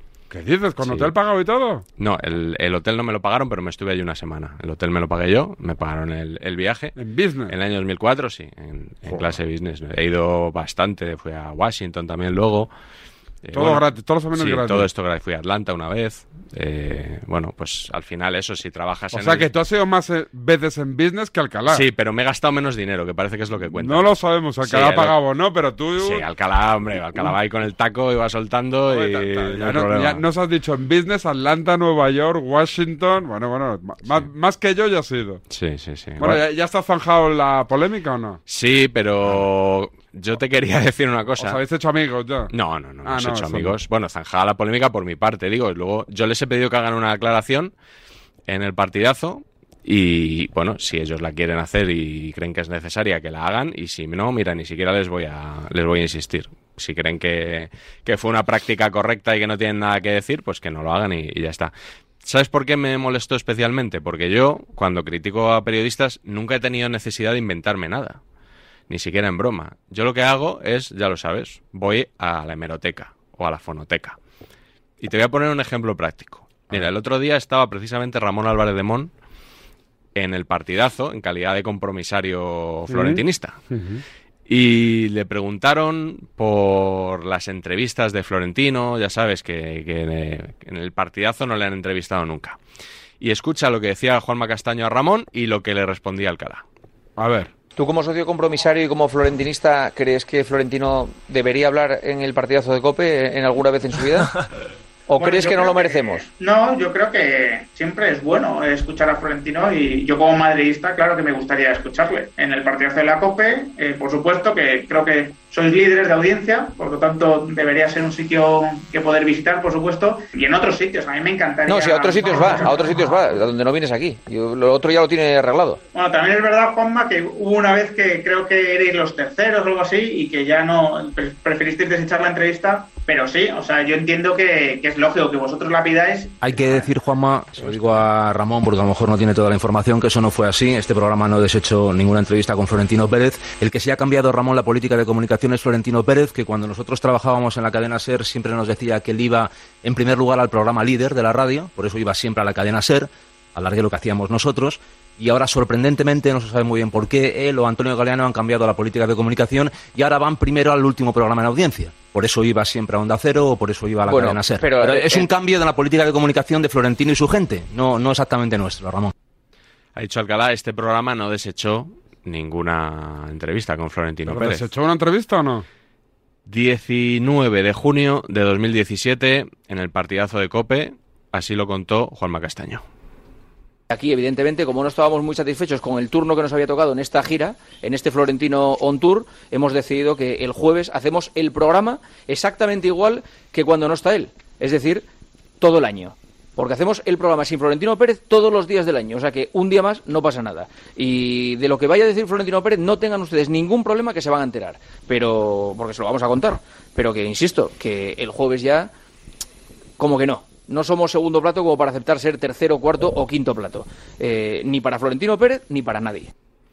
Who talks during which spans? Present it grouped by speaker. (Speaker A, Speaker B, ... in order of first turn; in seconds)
Speaker A: 0.3-1.8, 7.0-7.5, 9.1-9.4, 13.5-14.9, 19.1-21.9, 23.7-26.2, 28.9-35.4, 36.2-38.4, 41.4-42.5, 43.0-43.8, 82.9-84.0, 97.2-97.5, 174.3-175.7
Speaker B: 0.8-1.1, 2.0-7.0, 7.5-12.7, 13.4-19.5, 21.7-24.1, 24.6-25.1, 26.0-30.2, 35.5-36.4, 38.5-41.6, 42.5-47.7, 48.5-61.7, 62.2-68.2, 68.9-74.2, 75.0-79.1, 80.2-83.6, 84.5-92.6, 93.2-96.6, 169.9-174.7, 176.5-182.8
Speaker C: 97.8-104.3, 105.1-106.3, 121.7-125.8, 164.1-165.3, 183.9-195.1, 195.6-208.9, 210.0-216.3
Speaker D: 105.2-123.0, 126.0-136.4
Speaker E: 136.4-169.1